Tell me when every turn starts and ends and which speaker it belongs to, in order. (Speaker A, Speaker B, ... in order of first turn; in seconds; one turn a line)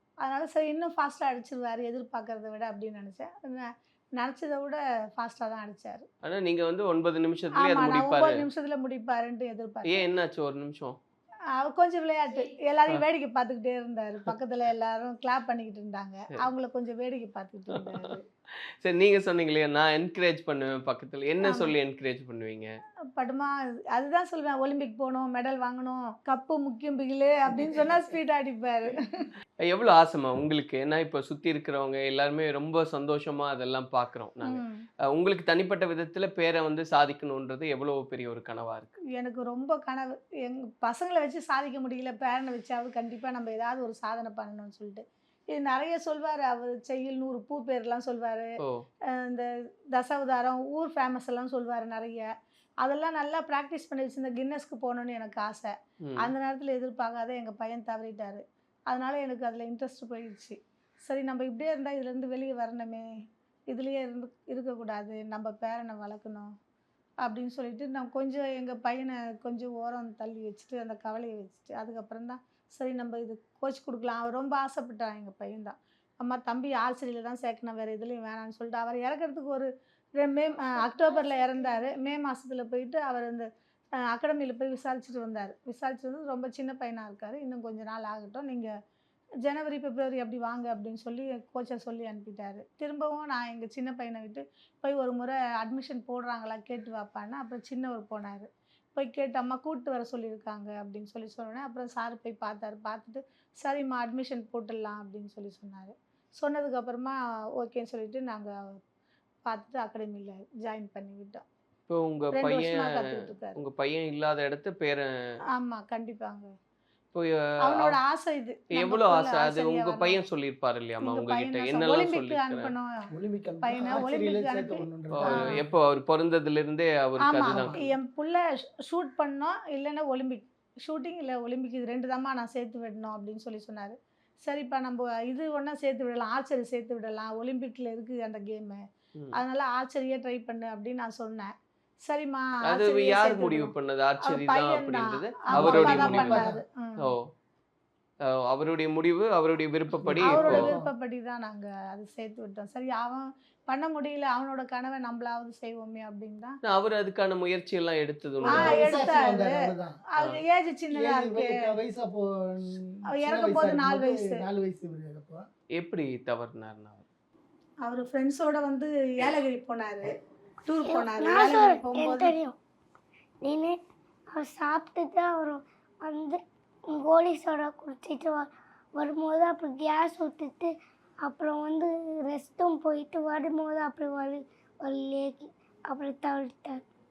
Speaker A: 0.2-6.1
Speaker B: 6.2-8.4
Speaker A: 7.5-10.1
Speaker B: 9.9-11.0
Speaker A: 11.6-18.2
Speaker B: 17.7-18.1
Speaker B: 18.8-22.8
Speaker A: 21.4-21.7
Speaker A: 23.1-28.9
Speaker B: 29.6-39.0
Speaker A: 34.4-34.8
Speaker A: 39.1-48.5
Speaker A: 49.1-52.3
Speaker A: 52.8-63.1
Speaker B: 56.0-56.3
Speaker A: 63.7-66.5
Speaker A: 67.2-83.5
Speaker C: 80.7-81.8
Speaker A: 84.0-88.7
Speaker A: 89.4-108.5
Speaker A: 109.5-111.4
Speaker B: 111.9-115.1
Speaker A: 112.3-113.6
Speaker A: 115.5-116.5
Speaker B: 117.1-118.0
Speaker A: 117.6-120.2
Speaker B: 118.7-122.7
Speaker A: 121.0-123.1
Speaker D: 123.1-125.6
Speaker A: 123.6-125.6
Speaker B: 125.1-127.8
Speaker A: 127.2-138.8
Speaker D: 127.5-127.9
Speaker A: 139.3-141.5
Speaker A: 142.1-143.7
Speaker B: 142.6-146.5
Speaker A: 144.2-147.1
Speaker D: 145.5-146.6
Speaker B: 147.0-147.3
Speaker B: 148.2-150.7
Speaker D: 150.0-150.9
Speaker A: 150.2-156.6
Speaker B: 156.6-158.8
Speaker D: 158.4-160.0
Speaker A: 158.5-159.6
Speaker A: 160.1-161.8
Speaker D: 160.9-165.4
Speaker A: 163.2-164.4
Speaker B: 165.8-167.1
Speaker A: 167.8-170.1
Speaker A: 170.7-172.3
Speaker C: 170.8-172.6
Speaker C: 173.4-173.8
Speaker C: 174.3-180.7
Speaker C: 181.2-186.8